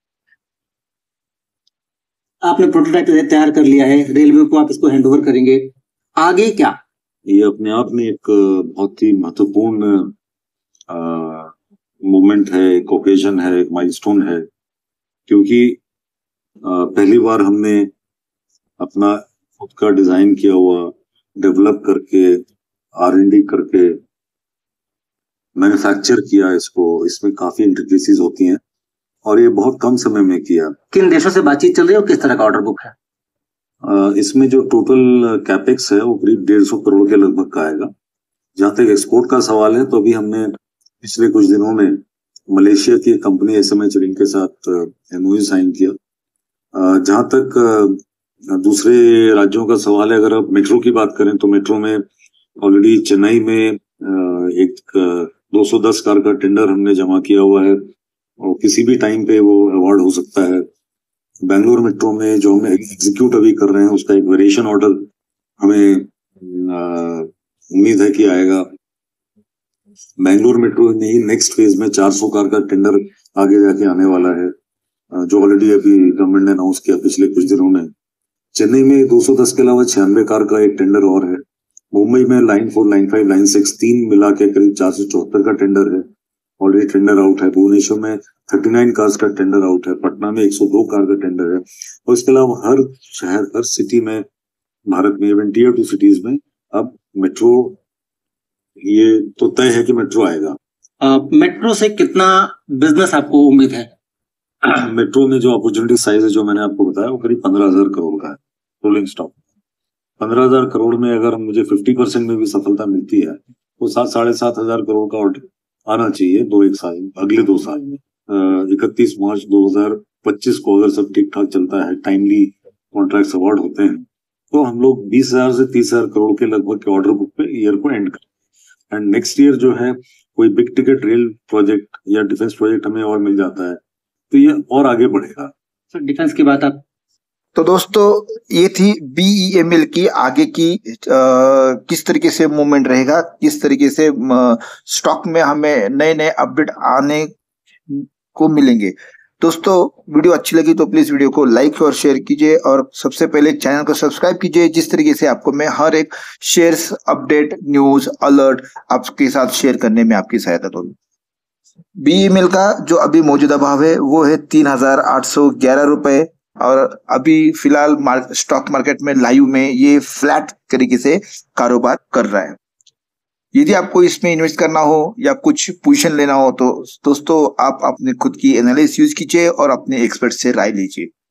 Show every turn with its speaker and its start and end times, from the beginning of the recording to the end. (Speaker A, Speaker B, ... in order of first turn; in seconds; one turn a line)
Speaker A: 2.4-6.7
Speaker B: 7.3-10.1
Speaker B: 10.9-11.5
Speaker B: 12.1-14.4
Speaker B: 15.3-15.8
Speaker B: 16.6-17.9
Speaker B: 18.8-22.4
Speaker B: 23.0-23.9
Speaker B: 25.6-28.6
Speaker B: 29.2-30.8
Speaker A: 30.9-32.9
Speaker B: 33.8-37.9
Speaker B: 38.5-40.5
Speaker B: 41.0-45.9
Speaker B: 46.7-52.0
Speaker B: 52.6-57.8
Speaker B: 58.4-60.6
Speaker B: 61.4-65.1
Speaker B: 65.6-68.6
Speaker B: 70.2-74.5
Speaker B: 75.1-77.9
Speaker B: 78.5-81.4
Speaker B: 81.9-86.0
Speaker B: 86.6-94.2
Speaker B: 94.9-97.8
Speaker B: 98.8-100.5
Speaker A: 101.0-103.9
Speaker B: 104.6-109.4
Speaker B: 110.2-128.2
Speaker B: 128.9-133.8
Speaker B: 134.3-135.5
Speaker A: 135.9-136.8
Speaker C: 137.5-147.3
Speaker C: 147.9-160.9
Speaker C: 162.0-172.6
Speaker C: 173.5-181.1